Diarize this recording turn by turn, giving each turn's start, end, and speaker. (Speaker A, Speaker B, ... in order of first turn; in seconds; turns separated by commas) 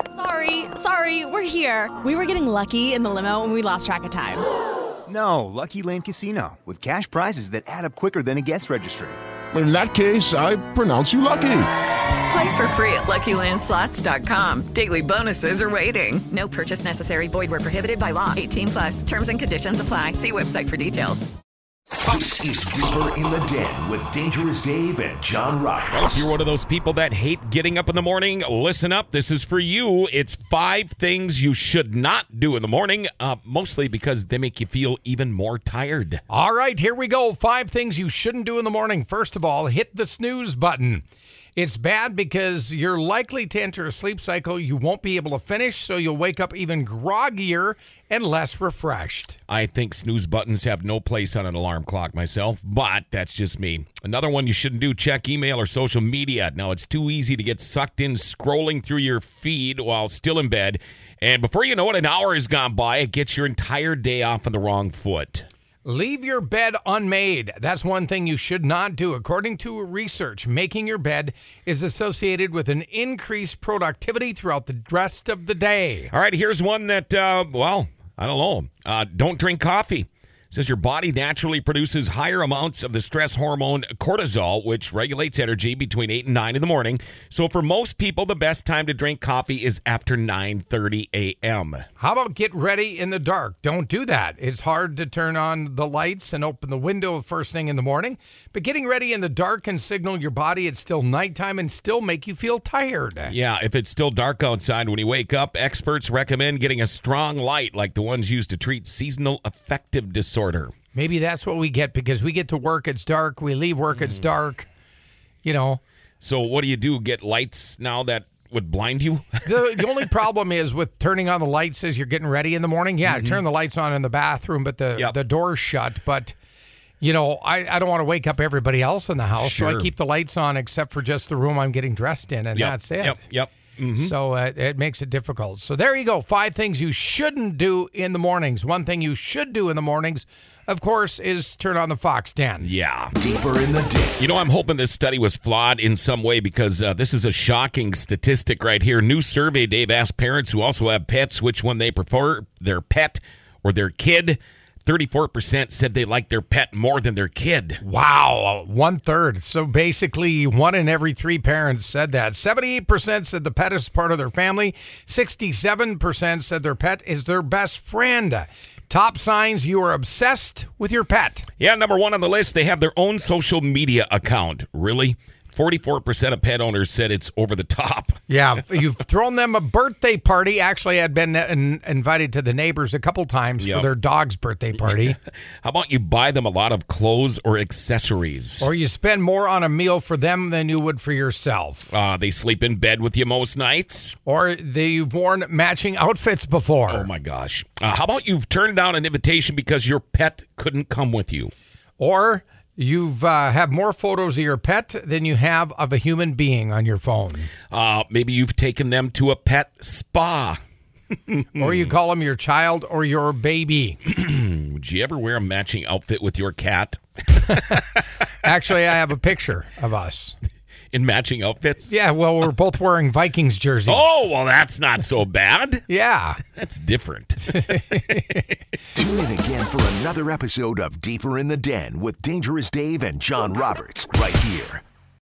Speaker A: 0.1-4.4, Speaker B: 5.1-9.2, Speaker C: 9.5-11.7, Speaker D: 12.2-21.3, Speaker E: 22.0-26.3, Speaker F: 25.9-36.2, Speaker G: 36.3-41.0, Speaker G: 41.6-49.3, Speaker F: 49.5-65.5, Speaker G: 65.8-75.9, Speaker F: 76.1-91.9, Speaker G: 92.0-103.3, Speaker F: 103.2-110.7, Speaker G: 111.0-114.6, Speaker F: 113.9-114.4, Speaker G: 115.5-115.8, Speaker F: 116.2-120.1, Speaker G: 119.5-126.3, Speaker F: 123.0-123.4, Speaker G: 127.0-133.1, Speaker F: 129.4-129.9, Speaker F: 132.5-134.1, Speaker G: 134.0-142.6, Speaker F: 142.6-143.1, Speaker E: 143.2-144.2, Speaker F: 144.2-157.8, Speaker G: 157.8-171.4, Speaker F: 171.6-178.4, Speaker G: 178.3-185.1, Speaker F: 183.6-183.9, Speaker F: 184.7-188.7, Speaker G: 188.6-191.8, Speaker F: 191.9-194.2, Speaker G: 194.3-197.1, Speaker F: 196.9-201.5, Speaker G: 202.0-207.3, Speaker F: 207.7-210.6, Speaker F: 211.3-211.9, Speaker G: 211.6-213.9, Speaker F: 214.0-217.8, Speaker G: 218.5-220.3, Speaker F: 220.9-221.9, Speaker G: 222.2-223.9, Speaker F: 223.8-225.8, Speaker G: 225.9-226.4, Speaker F: 226.5-228.4, Speaker E: 228.9-234.8